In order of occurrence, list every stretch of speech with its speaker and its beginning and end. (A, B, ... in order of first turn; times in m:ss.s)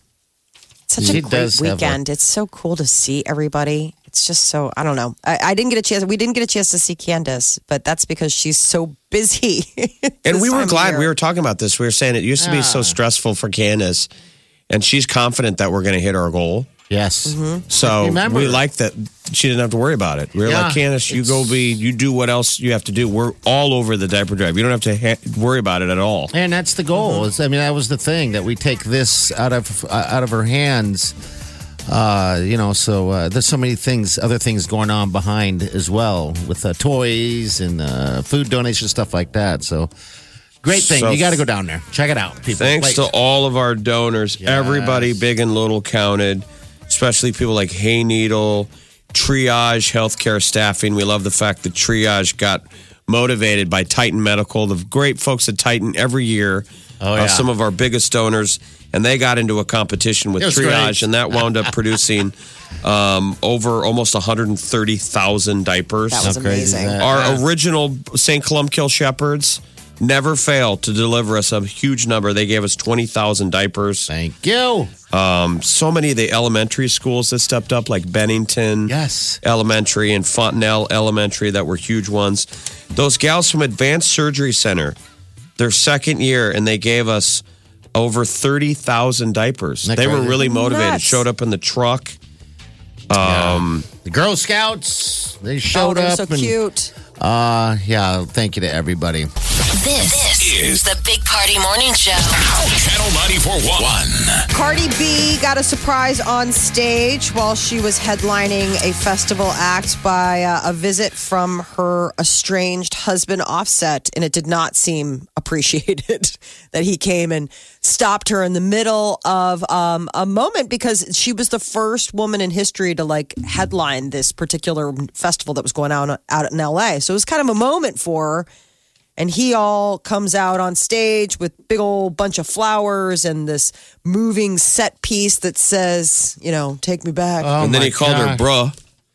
0:00.9-0:11.1 A
0:01.0-0:02.0 B
0:10.2-0:14.1 C
0:12.4-0:13.0 B
0:14.7-0:16.7 C
0:16.9-0:18.6 B
0:17.3-0:17.6 A
0:17.7-0:26.3 C
0:20.4-0:21.5 B
0:26.3-0:31.1 B
0:27.0-0:27.2 A
0:31.9-0:39.9 B
0:40.6-0:43.1 B
0:40.7-0:41.4 C
0:42.6-1:06.4 C
0:44.4-0:45.2 B
0:57.0-0:57.5 B
1:00.4-1:01.7 B
1:06.1-1:07.0 A
1:06.2-1:07.4 B
1:07.0-1:14.1 C
1:14.1-1:14.9 B
1:15.1-1:25.0 C
1:18.8-1:19.4 B
1:25.6-1:27.4 C
1:27.9-1:32.2 C
1:29.8-1:30.4 B
1:30.4-1:31.2 A
1:33.1-1:33.8 C
1:33.2-1:36.6 B
1:35.7-1:36.9 A
1:37.2-1:39.3 B
1:39.7-1:42.4 D
1:40.4-1:40.8 E
1:42.4-1:44.5 E
1:44.5-2:08.5 A
2:09.2-2:17.5 A
2:17.4-2:18.4 B
2:17.6-2:18.8 C